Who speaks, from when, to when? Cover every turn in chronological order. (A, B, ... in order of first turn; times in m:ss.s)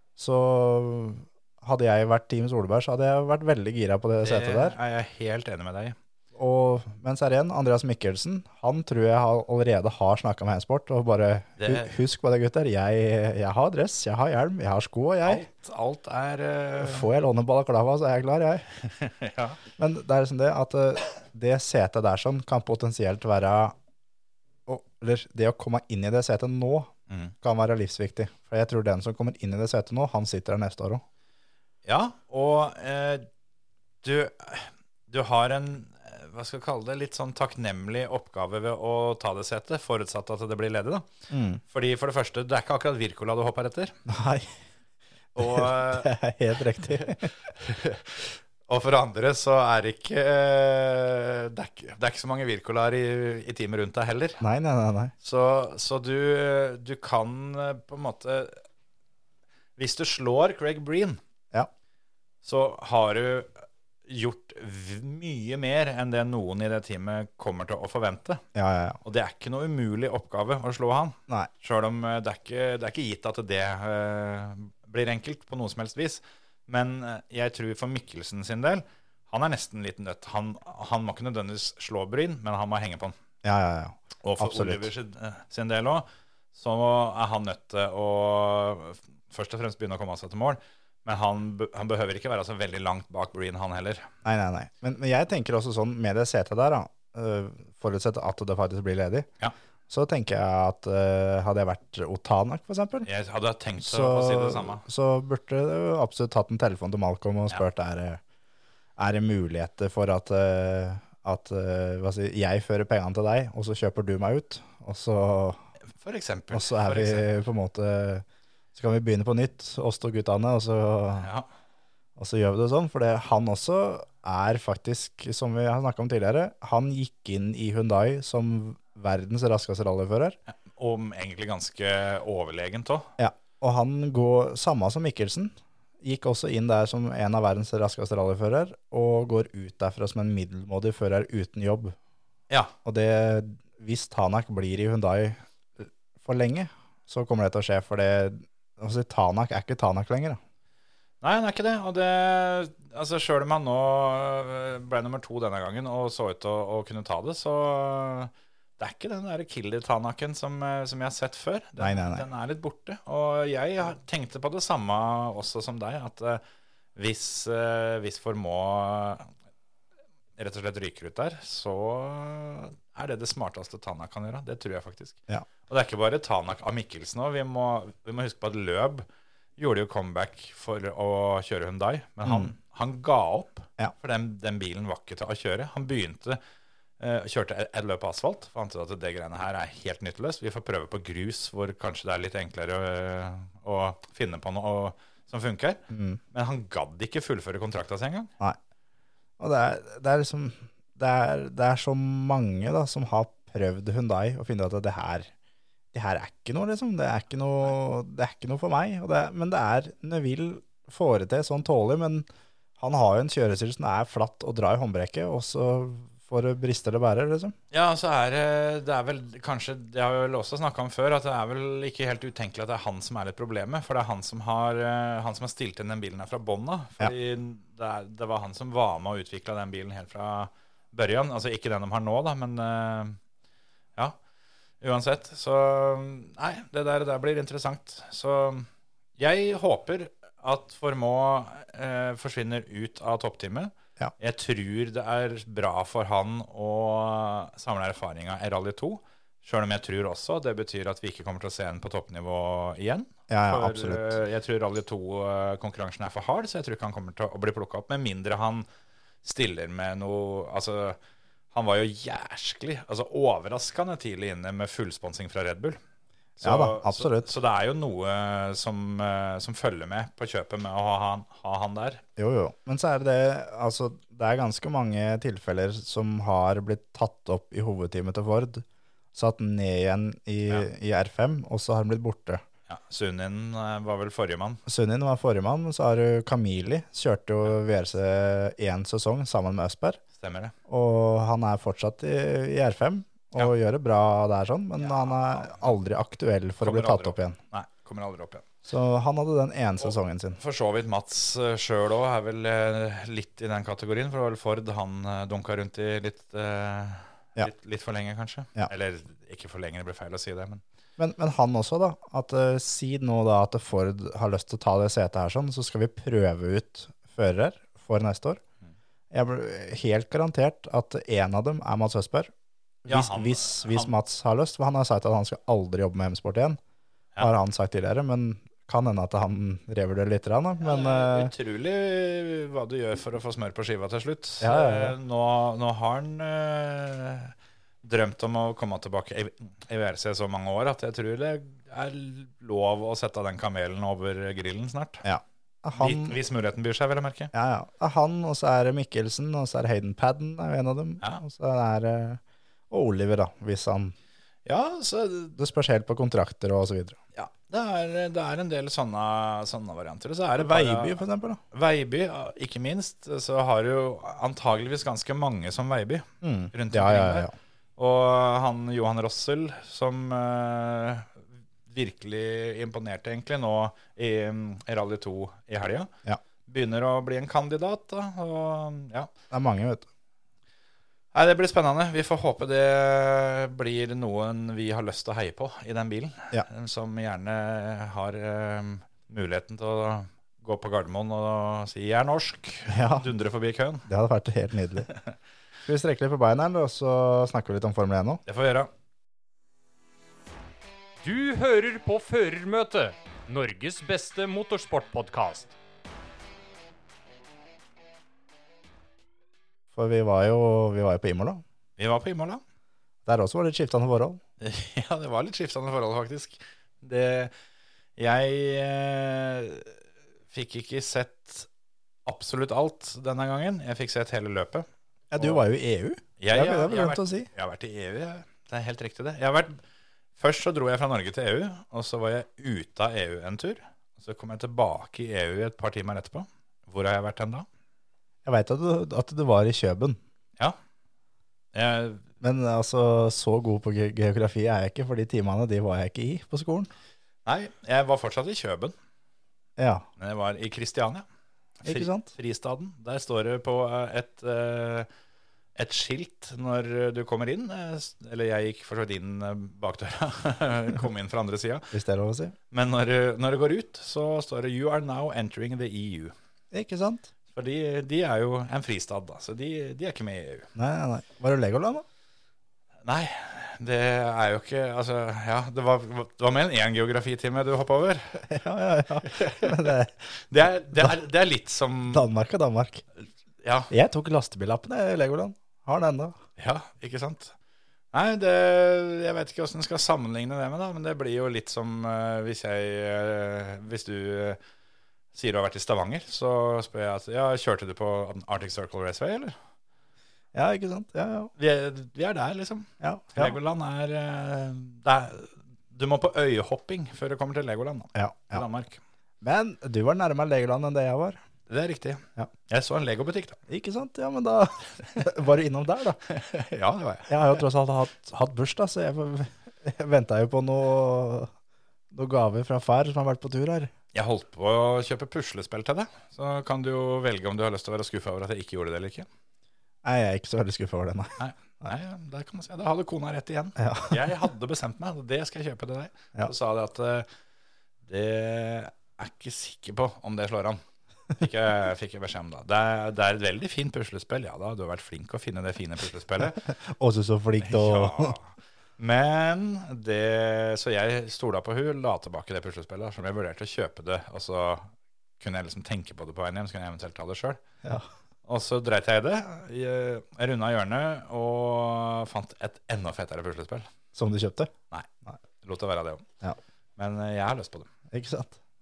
0:00.2-0:04.7 A
0:04.2-0:06.0 B
0:06.3-0:15.5 A
0:11.6-0:11.9 B
0:15.2-0:17.1 B
0:16.8-0:18.6 A
0:18.8-0:19.6 B
0:19.8-0:23.7 A
0:24.7-0:31.0 A
0:31.8-0:33.3 B
0:34.0-0:41.1 B
0:41.3-0:41.6 A
0:41.7-0:43.9 B
0:44.1-0:44.5 A
0:45.4-0:46.1 B
0:45.4-0:47.3 A
0:46.9-0:54.4 B
0:54.4-0:55.1 A
0:55.2-0:58.6 B
0:59.8-1:01.2 B
1:02.4-1:08.4 B
1:08.5-1:09.0 A
1:09.0-1:23.2 B
1:23.4-1:24.9 A
1:24.2-1:34.1 B
1:34.2-1:39.3 A
1:39.9-1:43.1 A
1:43.0-1:44.8 B
1:43.8-1:48.2 A
1:49.0-1:55.6 A
1:56.0-1:57.2 B
1:56.5-2:01.3 A
2:01.2-2:01.5 B
2:02.2-2:10.4 A
2:10.7-2:13.1 B
2:13.2-2:22.0 A
2:22.8-2:30.4 A
2:31.2-2:46.4 B
2:41.8-2:42.2 A
2:47.0-2:49.3 B
2:50.4-2:59.0 B
2:59.6-3:06.4 B
3:02.2-3:02.5 A
3:07.0-3:15.8 B
3:15.9-3:16.2 A
3:16.3-3:18.3 B
3:19.4-3:25.3 A
3:25.9-3:32.3 A
3:32.8-3:37.5 A
3:37.7-3:53.2 B
3:54.8-4:18.6 B
4:13.3-4:14.2 A
4:19.2-4:21.0 B
4:21.5-4:25.8 B
4:26.4-4:32.0 B
4:26.4-4:27.3 A
4:32.2-4:42.4 A
4:42.7-4:44.6 B
4:44.6-4:50.0 A
4:50.2-4:50.5 B
4:50.7-4:57.4 A
4:54.8-4:55.7 B
4:56.6-4:58.4 B
4:58.6-5:00.4 A
4:59.8-5:10.6 B
5:11.0-5:18.4 A
5:19.1-5:22.3 A
5:22.8-5:26.6 A
5:22.9-5:23.9 B
5:27.2-5:31.3 A
5:30.6-5:45.0 B
5:34.4-5:34.9 A
5:45.0-5:46.2 A
5:45.7-5:47.3 B
5:47.3-5:53.9 A
5:54.4-5:55.4 B
5:55.4-5:57.0 A
5:57.1-6:01.0 B
6:00.4-6:01.4 A
6:01.5-6:15.9 B
6:06.2-6:07.3 A
6:16.5-6:19.1 B
6:19.3-6:19.9 A
6:21.1-6:33.8 B
6:32.7-6:33.1 A
6:33.8-6:34.9 A
6:35.6-6:38.2 A
6:38.2-6:38.7 B
6:41.0-6:45.5 C
6:49.7-6:51.4 A
6:51.8-6:52.4 B
6:53.0-6:54.2 A
6:54.4-6:57.3 B
6:58.0-6:59.8 B
7:00.3-7:01.5 B
7:02.0-7:04.6 B
7:05.1-7:07.3 A
7:06.2-7:09.6 B
7:10.2-7:17.4 B
7:18.2-7:20.0 A
7:21.5-7:22.0 B
7:22.2-7:26.7 A
7:27.2-7:28.7 B
7:29.6-7:29.9 A
7:30.0-7:31.0 B
7:31.6-7:34.9 B
7:31.6-7:32.1 A
7:35.6-7:41.7 B
7:41.7-7:42.3 A
7:42.5-7:46.1 B
7:46.5-7:47.1 A
7:47.3-7:50.5 B
7:50.6-7:51.8 A
7:52.8-7:58.3 B
7:58.2-7:59.9 A
7:59.0-8:02.1 B
8:01.9-8:02.8 A
8:03.4-8:03.7 B
8:03.7-8:06.2 A
8:06.4-8:07.3 B
8:07.9-8:14.4 B
8:15.1-8:19.3 B
8:20.3-8:21.3 A
8:21.4-8:28.8 B
8:22.8-8:23.4 A
8:27.9-8:28.4 A
8:29.2-8:31.2 A
8:31.5-8:33.4 B
8:33.5-8:36.0 A
8:36.1-8:37.1 B
8:37.1-8:41.3 A
8:41.9-8:43.7 A
8:43.9-8:49.1 B
8:49.8-8:51.7 A
8:51.2-8:57.1 B
8:53.6-8:54.0 A
8:57.8-9:00.6 B
9:01.1-9:06.4 B
9:06.4-9:08.2 A
9:07.4-9:17.4 B
9:18.2-9:23.7 B
9:23.9-9:24.5 A
9:25.4-9:26.1 B
9:26.8-9:27.7 B
9:27.9-9:28.4 A